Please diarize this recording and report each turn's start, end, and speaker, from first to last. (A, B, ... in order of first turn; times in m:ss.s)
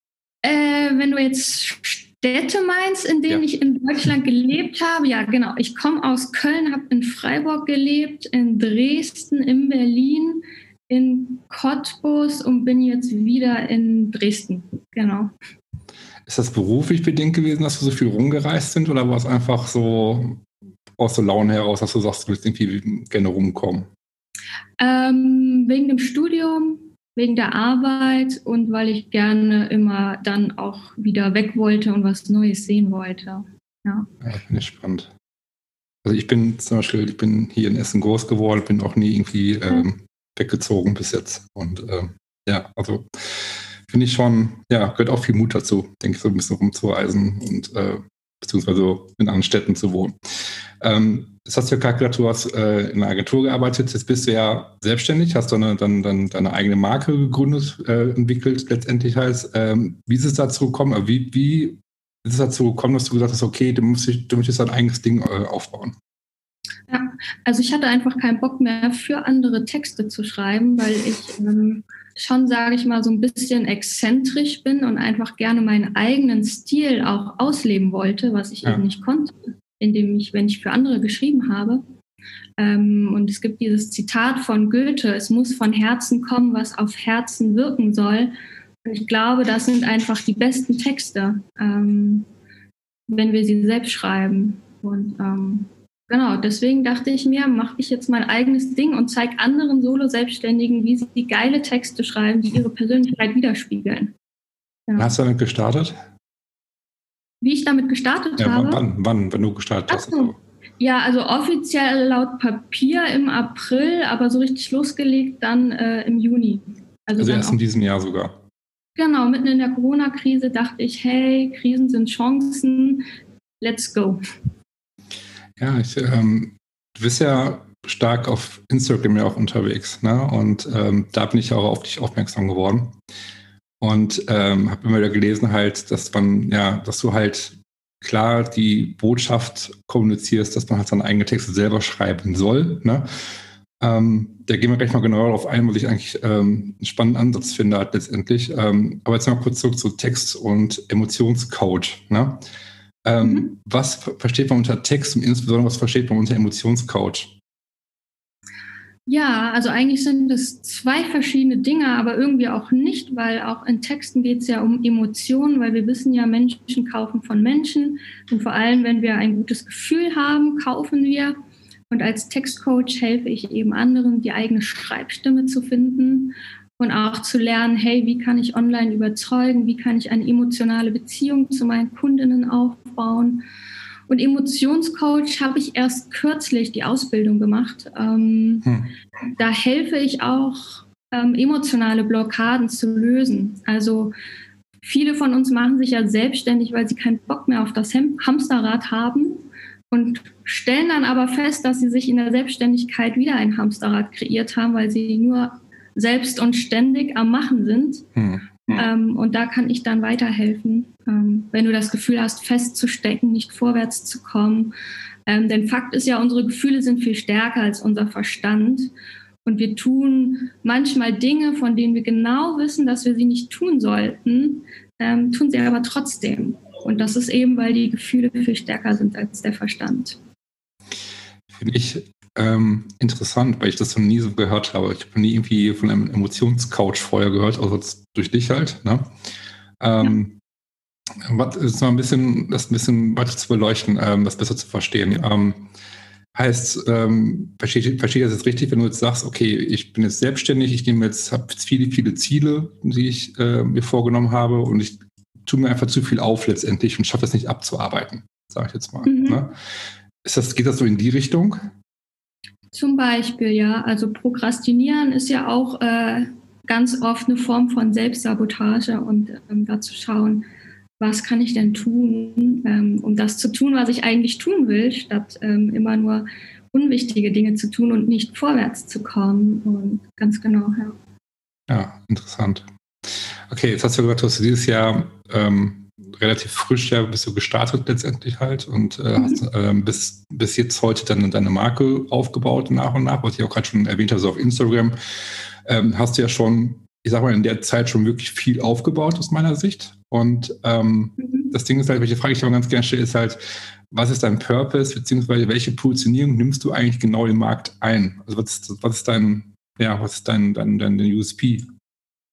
0:00.4-0:15.3 A
0:16.2-0:20.4 B
0:21.0-0:23.9 B
0:24.8-0:34.1 A
0:34.2-0:35.1 B
0:36.0-0:50.2 B
0:50.8-1:05.9 B
1:06.9-1:21.8 A
1:22.6-1:28.3 A
1:28.8-1:32.3 A
1:33.1-1:44.1 A
1:44.9-1:45.1 A
1:45.0-1:45.9 B
1:47.4-1:48.8 A
1:48.4-1:50.4 B
1:49.9-1:57.6 A
1:57.2-1:58.4 B
1:59.0-2:03.0 A
2:03.6-2:04.2 A
2:05.6-2:13.0 B
2:13.8-2:23.1 B
2:23.8-2:32.4 B
2:33.0-2:37.4 B
2:33.2-2:33.5 A
2:39.1-2:51.4 A
2:51.9-3:03.4 A
3:04.1-3:08.7 A
3:08.6-3:08.9 B
3:09.4-3:14.1 A
3:14.8-3:28.1 A
3:28.1-3:28.9 B
3:28.7-3:34.7 A
3:35.3-3:38.9 A
3:39.4-3:50.2 A
3:51.5-3:59.1 B
3:59.8-4:00.4 B
4:01.2-4:05.7 B
4:06.3-4:19.5 B
4:19.0-4:19.4 A
4:20.2-4:21.6 B
4:22.7-4:30.4 A
4:31.0-4:41.0 A
4:41.7-4:54.9 B
4:55.6-5:03.4 B
5:01.2-5:01.5 A
5:03.9-5:11.7 B